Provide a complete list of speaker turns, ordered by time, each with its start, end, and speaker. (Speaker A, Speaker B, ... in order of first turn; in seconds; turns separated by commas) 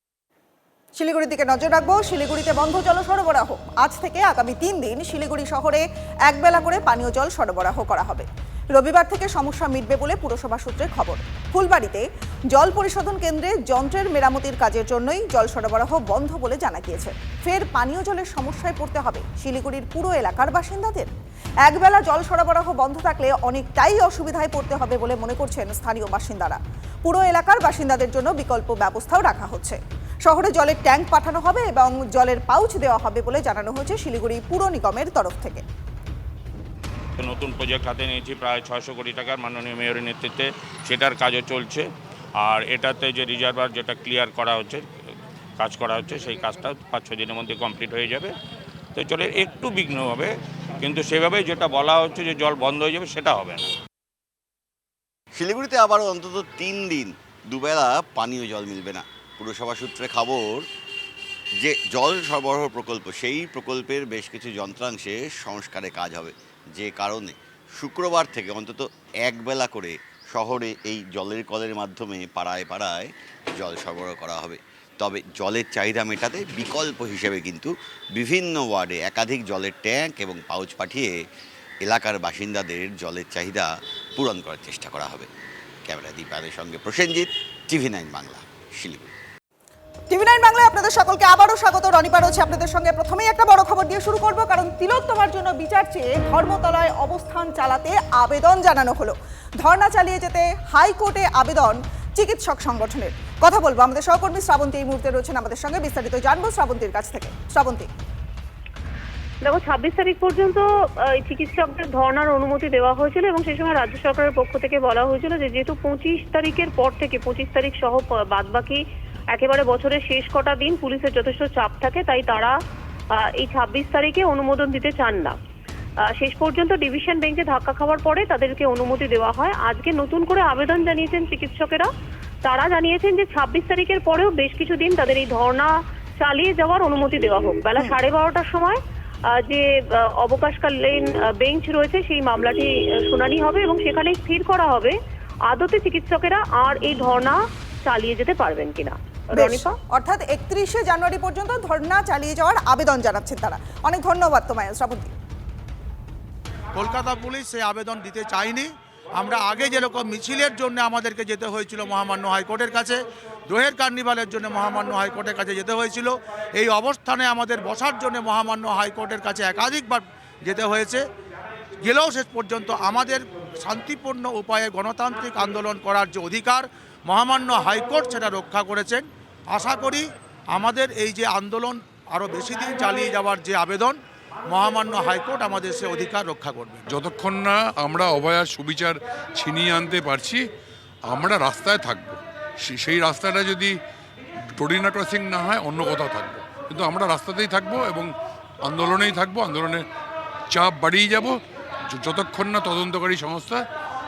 Speaker A: 1.0-21.1, Speaker A: 21.6-35.6, Speaker B: 37.2-41.9, Speaker B: 42.4-44.8, Speaker B: 45.6-48.3, Speaker B: 48.9-53.7, Speaker C: 55.4-60.7, Speaker C: 61.6-81.2, Speaker C: 81.8-85.3, Speaker C: 85.9-89.1, Speaker A: 90.1-107.9, Speaker D: 109.4-110.6, Speaker D: 111.2-118.8, Speaker D: 119.3-122.5, Speaker D: 123.4-125.3, Speaker D: 126.2-131.9, Speaker D: 132.4-138.8, Speaker D: 140.2-144.9, Speaker D: 145.5-149.7, Speaker A: 149.3-155.1, Speaker E: 156.7-163.0, Speaker E: 163.5-171.0, Speaker E: 171.8-183.9, Speaker E: 184.5-186.8, Speaker F: 186.8-190.4, Speaker F: 191.1-193.8, Speaker F: 194.6-198.1, Speaker F: 198.6-199.8, Speaker F: 200.5-201.4, Speaker F: 201.9-203.7